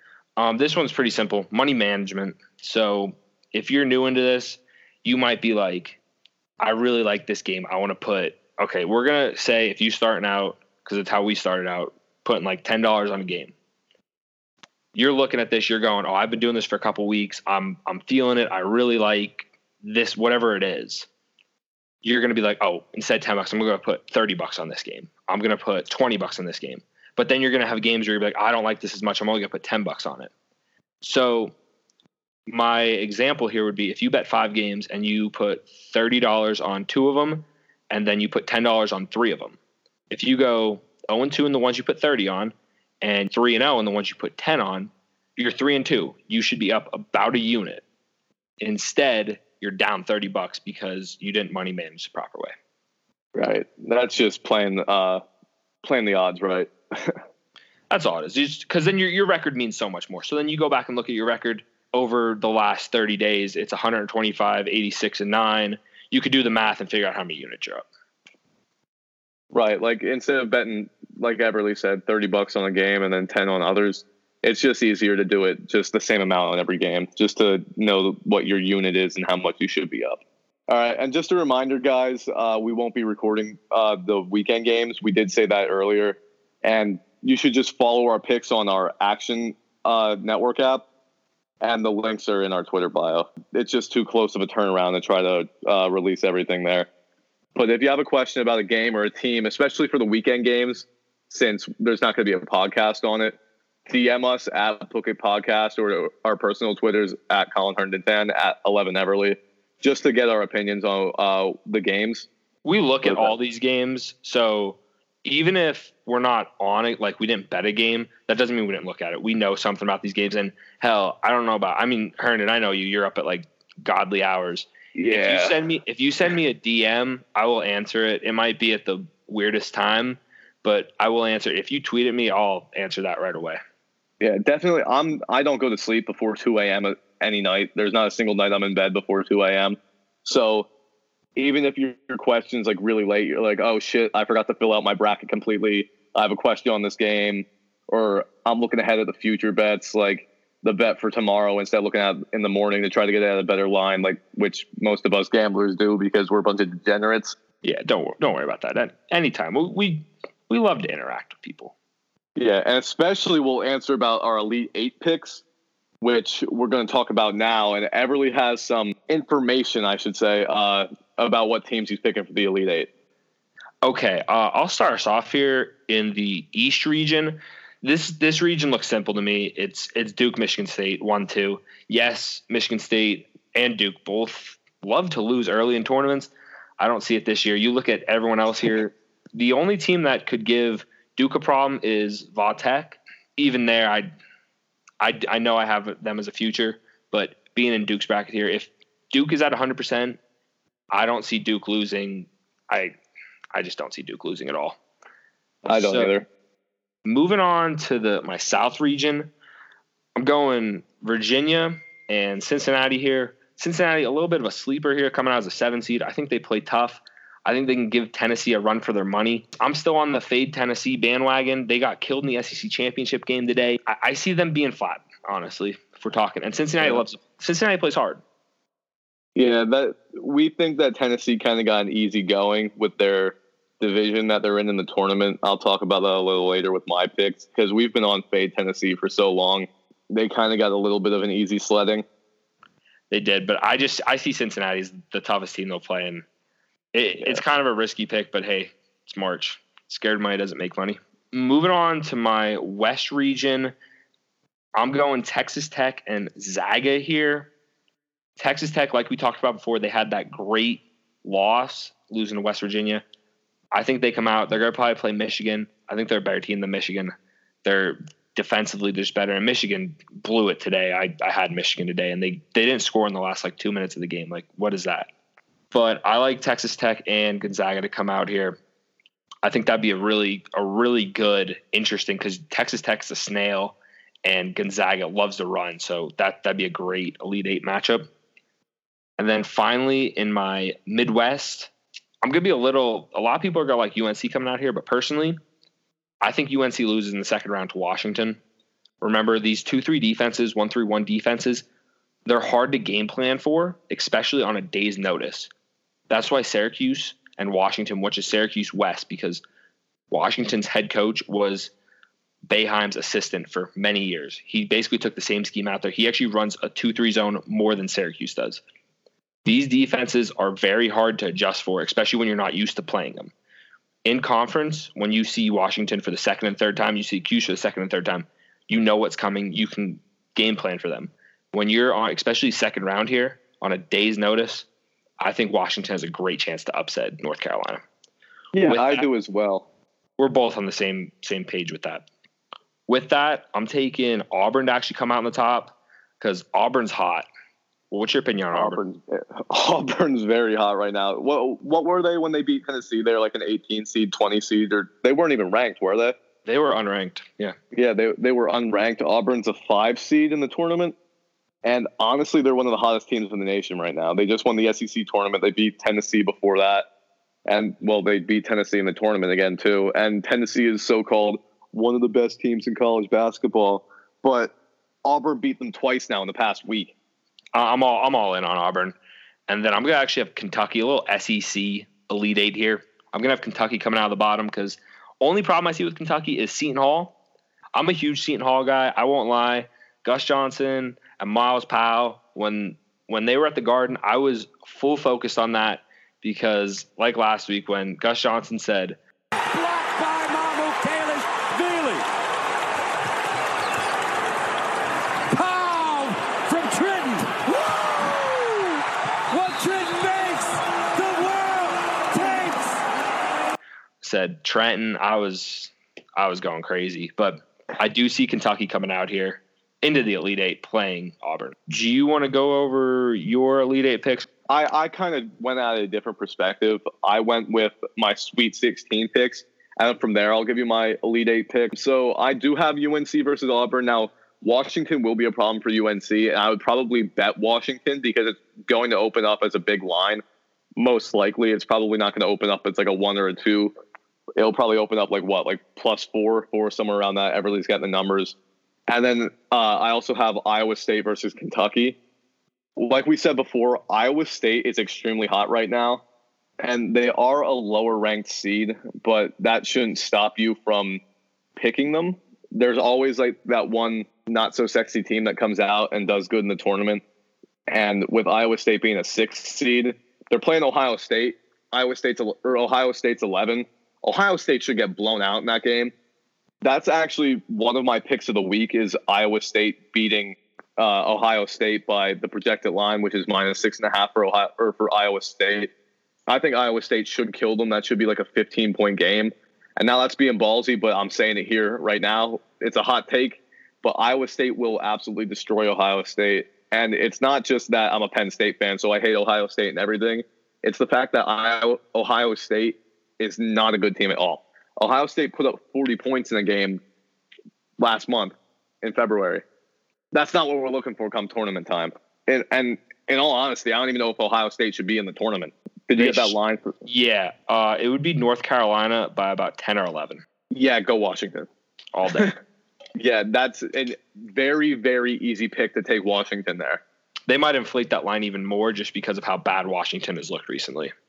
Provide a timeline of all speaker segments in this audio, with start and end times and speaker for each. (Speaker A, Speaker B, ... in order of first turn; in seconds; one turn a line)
Speaker A: 0.4-6.0
Speaker A: 6.6-13.5
Speaker A: 14.9-21.1
Speaker A: 22.0-30.3
Speaker A: 31.0-31.5
Speaker A: 32.5-39.5
Speaker A: 40.1-47.8
Speaker A: 48.6-52.5
Speaker B: 53.3-55.2
Speaker B: 55.8-57.2
Speaker A: 57.9-67.8
Speaker B: 69.5-90.8
Speaker B: 91.6-96.9
Speaker B: 97.5-103.4
Speaker B: 103.9-112.3
Speaker A: 112.6-133.6
Speaker B: 113.0-113.3
Speaker B: 124.9-125.6
Speaker B: 134.2-140.7
Speaker B: 141.3-157.3
Speaker A: 157.6-161.7
Speaker B: 162.3-165.4
Speaker B: 166.0-172.9
Speaker A: 173.8-194.1
Speaker A: 195.0-200.2
Speaker A: 200.9-202.9
Speaker A: 203.5-204.8
Speaker B: 205.6-206.3
Speaker A: 205.7-206.1
Speaker A: 207.0-209.3
Speaker A: 210.2-228.2
Speaker B: 229.3-242.0
Speaker A: 243.1-246.2
Speaker A: 246.9-253.7
Speaker A: 254.7-257.5
Speaker A: 258.4-263.0
Speaker A: 263.7-267.1
Speaker A: 267.6-275.1
Speaker A: 275.7-278.6
Speaker A: 279.4-288.1
Speaker A: 289.2-291.7
Speaker A: 292.2-295.4
Speaker A: 296.2-298.4
Speaker A: 299.0-301.6
Speaker A: 302.2-305.5
Speaker A: 306.1-309.4
Speaker A: 310.1-311.7
Speaker A: 312.5-318.6
Speaker A: 319.4-323.3
Speaker A: 324.0-334.6
Speaker A: 335.2-337.8
Speaker B: 338.5-339.7
Speaker A: 338.6-339.0
Speaker A: 340.2-342.1
Speaker A: 342.9-347.3
Speaker A: 347.9-348.8
Speaker B: 348.5-356.1
Speaker A: 356.4-357.6
Speaker B: 357.7-360.9
Speaker B: 361.6-366.9
Speaker B: 367.4-374.5
Speaker B: 375.0-376.9
Speaker A: 377.5-378.9
Speaker A: 379.5-387.1
Speaker A: 387.8-399.0
Speaker C: 399.5-402.0
Speaker C: 405.3-408.8
Speaker C: 409.3-412.8
Speaker A: 414.0-424.3
Speaker B: 424.5-440.2
Speaker B: 440.8-443.7
Speaker B: 444.4-448.3
Speaker B: 448.9-452.0
Speaker B: 452.8-456.0
Speaker B: 456.6-461.0
Speaker B: 461.6-467.0
Speaker B: 467.7-475.9
Speaker B: 476.6-485.7
Speaker B: 486.3-506.8
Speaker B: 507.8-509.4
Speaker B: 510.1-516.8
Speaker A: 516.0-520.2
Speaker B: 520.5-521.5
Speaker A: 521.9-522.3
Speaker B: 523.0-526.8
Speaker A: 527.3-530.9